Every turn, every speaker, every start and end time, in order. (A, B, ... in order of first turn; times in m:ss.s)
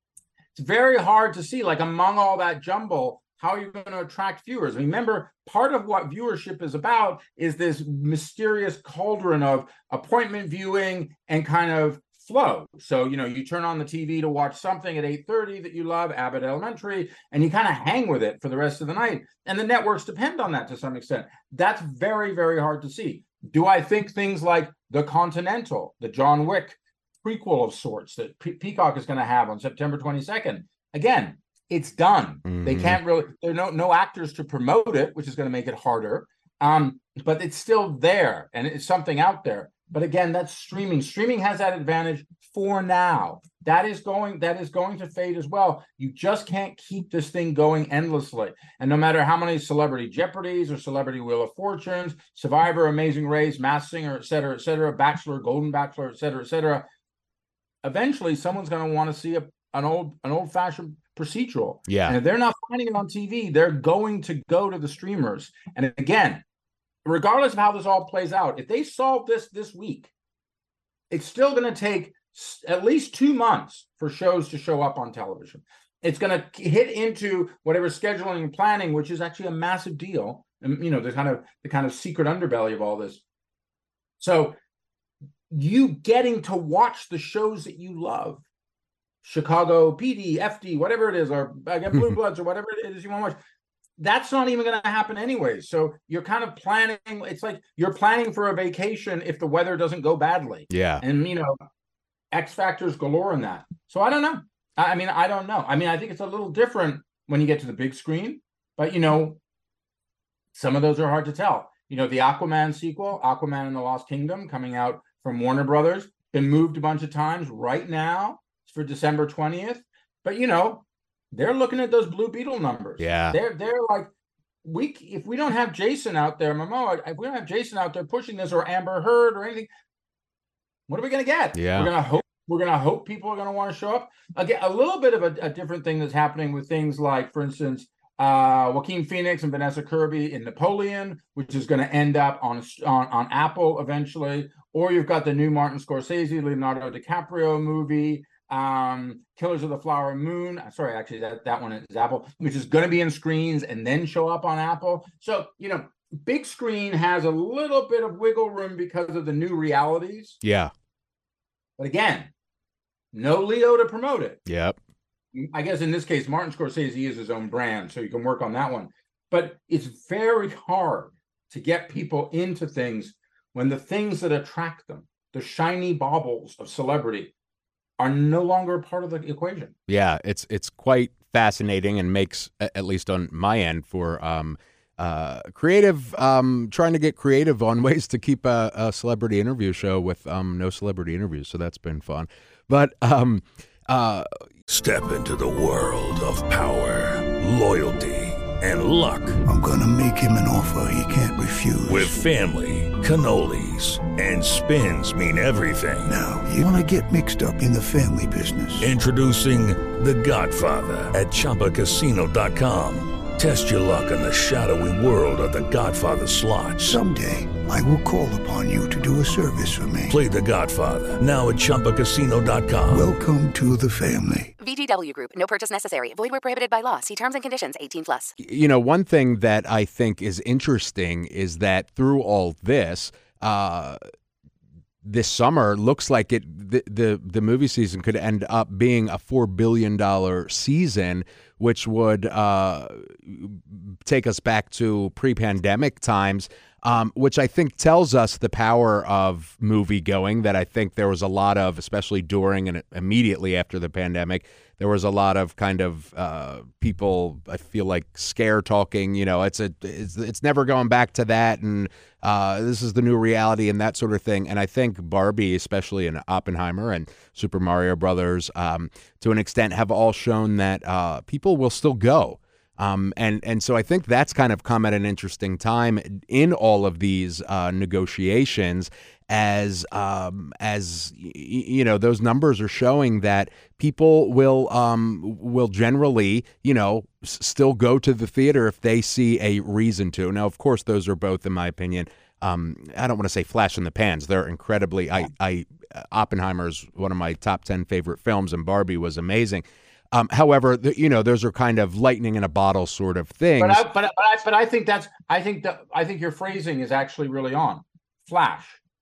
0:00.5-0:56.8 A
0:32.4-0:33.0 B
0:57.8-1:06.4 A
1:01.9-1:02.2 B
1:07.0-1:10.1 A
1:11.1-1:23.2 A
1:24.2-1:24.6 A
1:25.5-1:28.4 A
1:29.2-1:33.4 A
1:34.0-1:41.6 A
1:40.7-1:41.0 B
1:42.3-1:49.4 A
1:50.5-2:04.1 A
2:03.0-2:03.4 B
2:04.6-2:09.7 A
2:10.9-2:40.4 A
2:11.5-2:11.9 B
2:40.4-2:40.7 B
2:41.8-2:42.3 A
2:43.1-2:44.4 A
2:44.4-2:44.8 B
2:45.3-2:57.3 A
2:58.0-2:59.7 A
2:59.9-3:14.3 B
3:14.7-3:19.4 C
3:19.4-3:22.2 D
3:21.9-3:26.2 C
3:26.0-3:28.9 D
3:28.8-3:37.0 C
3:36.8-3:40.1 D
3:40.1-3:43.1 C
3:42.9-3:44.5 D
3:44.6-3:48.3 E
3:48.4-3:54.0 B
3:55.0-5:03.8 B
5:03.6-5:08.8 A